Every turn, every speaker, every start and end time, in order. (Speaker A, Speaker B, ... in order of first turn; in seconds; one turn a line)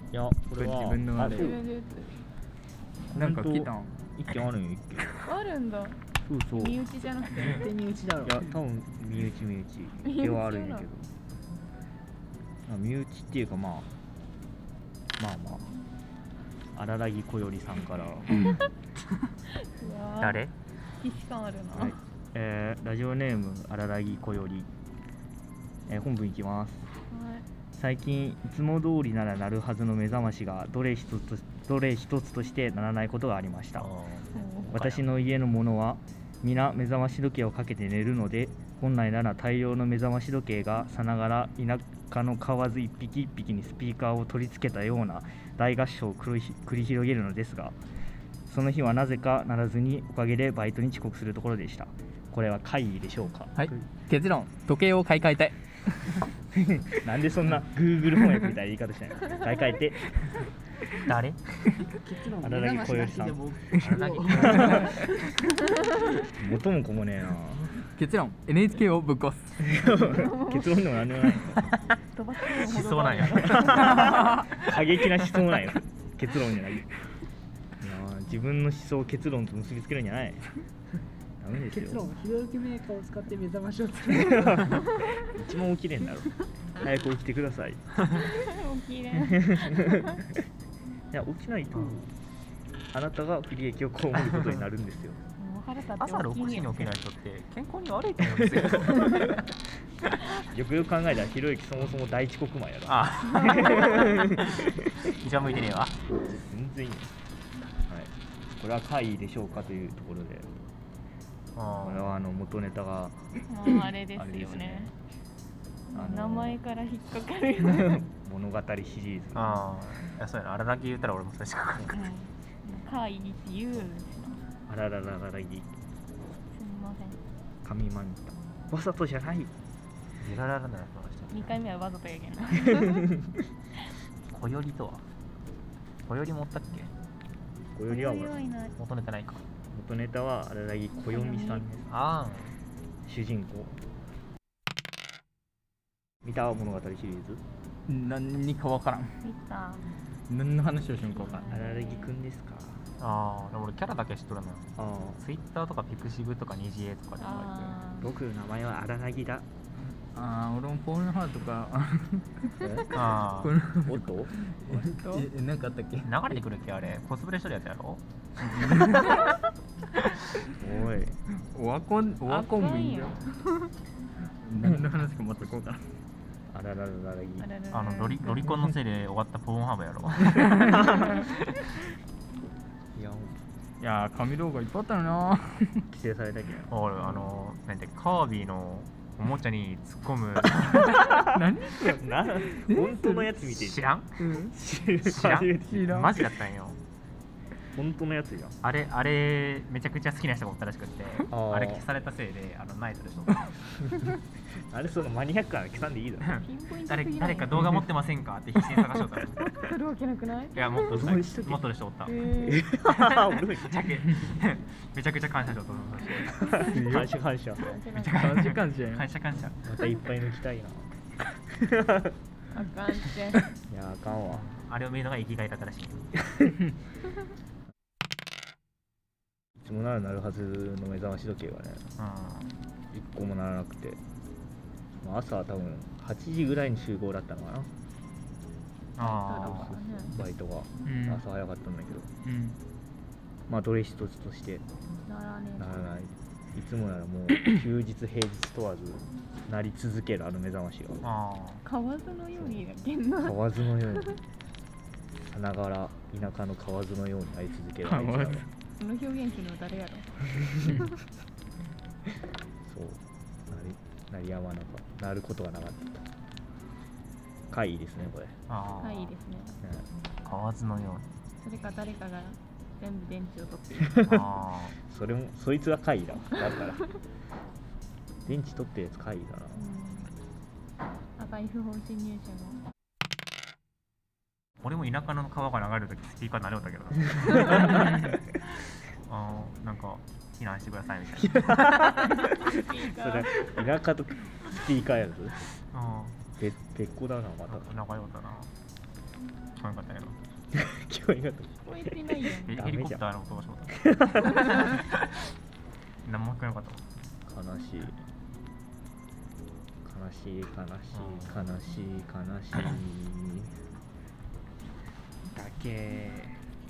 Speaker A: 0.1-1.6
Speaker B: 0.6-1.6
Speaker C: 1.3-2.2
Speaker B: 3.1-3.9
Speaker A: 3.1-5.2
Speaker C: 5.2-6.0
Speaker A: 6.2-6.8
Speaker C: 6.5-7.7
Speaker D: 7.5-8.5
Speaker A: 8.2-11.1
Speaker C: 10.0-10.9
Speaker A: 12.7-13.9
Speaker A: 15.2-15.7
Speaker A: 16.7-18.3
Speaker C: 19.6-20.4
Speaker E: 20.2-20.5
Speaker C: 21.0-22.0
Speaker A: 21.7-24.7
Speaker A: 25.9-26.9
Speaker C: 27.1-27.5
Speaker A: 27.8-33.9
Speaker E: 33.8-35.0
Speaker C: 34.3-34.7
Speaker A: 34.7-47.8
Speaker A: 48.5-53.8
Speaker B: 53.6-56.1
Speaker A: 56.5-60.0
Speaker E: 61.0-61.4
Speaker D: 62.0-65.1
Speaker A: 62.4-63.5
Speaker E: 63.8-64.9
Speaker A: 64.5-64.9
Speaker B: 64.6-64.9
Speaker A: 66.4-67.7
Speaker B: 67.8-69.6
Speaker A: 69.6-71.7
Speaker C: 69.9-70.8
Speaker C: 72.1-74.1
Speaker E: 72.7-74.8
Speaker A: 73.5-76.9
Speaker A: 77.8-80.4
Speaker A: 81.4-82.1
Speaker D: 81.7-84.8
Speaker A: 84.2-87.9
Speaker C: 88.2-90.2
Speaker A: 89.2-90.2
Speaker A: 91.1-92.1
Speaker E: 91.7-92.0
Speaker A: 92.9-95.2
Speaker C: 95.4-96.9
Speaker E: 96.0-99.4
Speaker A: 98.2-99.3
Speaker A: 100.4-104.7
Speaker E: 102.9-106.0
Speaker C: 103.4-104.2
Speaker A: 106.3-107.1
Speaker A: 107.8-110.7
Speaker E: 111.5-112.1
Speaker A: 111.8-113.3
Speaker C: 113.5-114.9
Speaker A: 114.1-114.9
Speaker C: 115.9-118.0
Speaker A: 115.9-116.6
Speaker A: 117.6-119.7
Speaker E: 119.3-122.0
Speaker C: 121.9-124.4
Speaker A: 124.7-125.7
Speaker C: 126.5-127.2
Speaker A: 127.6-129.5
Speaker E: 130.2-131.5
Speaker C: 131.3-133.1
Speaker E: 134.3-135.1
Speaker E: 136.1-136.9
Speaker A: 137.7-138.4
Speaker C: 137.9-138.7
Speaker E: 138.8-139.4
Speaker A: 139.7-141.9
Speaker C: 141.1-141.7
Speaker E: 141.9-142.5
Speaker A: 143.1-143.8
Speaker A: 146.2-147.4
Speaker B: 147.9-149.1
Speaker C: 149.2-149.9
Speaker B: 150.3-151.6
Speaker C: 151.1-152.1
Speaker A: 151.5-152.9
Speaker E: 153.0-157.8
Speaker A: 154.8-155.2
Speaker C: 157.2-158.1
Speaker A: 158.0-159.5
Speaker B: 160.2-162.7
Speaker A: 162.6-162.8
Speaker E: 162.9-163.6
Speaker B: 163.4-166.4
Speaker A: 163.8-164.3
Speaker C: 164.7-165.3
Speaker E: 166.0-168.0
Speaker B: 168.4-169.3
Speaker A: 170.6-171.2
Speaker B: 171.5-173.2
Speaker C: 172.3-173.7
Speaker B: 174.4-175.8
Speaker A: 176.5-177.5
Speaker C: 177.4-178.3
Speaker E: 177.7-181.3
Speaker A: 182.9-183.4
Speaker B: 183.8-185.8
Speaker A: 185.9-186.8
Speaker E: 186.7-190.9
Speaker A: 190.9-193.9
Speaker B: 191.1-193.3
Speaker E: 193.5-194.2
Speaker B: 194.2-194.5
Speaker A: 194.4-196.1
Speaker E: 195.0-196.8
Speaker B: 195.7-196.1
Speaker A: 197.8-198.6
Speaker E: 198.6-203.4
Speaker A: 201.3-201.9
Speaker A: 204.6-206.4
Speaker E: 206.2-209.4
Speaker C: 206.4-207.6
Speaker C: 209.4-210.9
Speaker E: 210.6-212.1
Speaker A: 210.9-211.6
Speaker C: 212.1-212.6
Speaker A: 212.4-213.8
Speaker E: 212.9-216.4
Speaker A: 216.5-217.7
Speaker B: 216.7-217.1
Speaker C: 217.6-218.5
Speaker E: 218.0-219.6
Speaker B: 218.1-219.1
Speaker A: 219.7-220.9
Speaker A: 221.5-222.2
Speaker C: 222.5-223.5
Speaker A: 223.7-224.4
Speaker E: 224.3-226.1
Speaker A: 229.6-231.9
Speaker E: 232.0-232.6
Speaker A: 232.9-234.0
Speaker A: 235.0-237.7
Speaker E: 239.0-239.7
Speaker C: 239.0-240.1
Speaker A: 239.4-242.1
Speaker B: 240.9-241.2
Speaker B: 242.2-242.6
Speaker A: 243.5-244.7
Speaker C: 245.1-245.9
Speaker A: 245.6-251.0
Speaker E: 251.0-251.6
Speaker C: 251.7-254.1
Speaker A: 253.2-254.2
Speaker A: 255.2-258.5
Speaker B: 257.9-258.5
Speaker C: 258.8-260.9
Speaker A: 262.6-266.1
Speaker A: 267.5-268.4
Speaker E: 268.5-269.1
Speaker C: 268.8-269.6
Speaker E: 270.2-271.1
Speaker C: 271.4-273.9
Speaker A: 273.8-274.3
Speaker E: 274.0-274.8
Speaker A: 274.8-276.8
Speaker A: 278.3-279.7
Speaker C: 279.6-280.1
Speaker C: 281.2-282.6
Speaker E: 284.6-288.0
Speaker A: 287.2-288.0
Speaker E: 289.1-292.0
Speaker A: 291.2-292.3
Speaker C: 292.3-293.3
Speaker A: 292.9-295.4
Speaker E: 295.7-296.2
Speaker A: 296.4-297.7
Speaker E: 297.5-298.5
Speaker E: 299.6-300.2
Speaker A: 300.5-303.0
Speaker C: 301.6-302.6
Speaker E: 302.5-305.1
Speaker A: 303.8-304.5
Speaker E: 306.1-306.8
Speaker A: 307.3-308.0
Speaker A: 309.8-313.5
Speaker E: 310.9-311.5
Speaker E: 315.4-316.3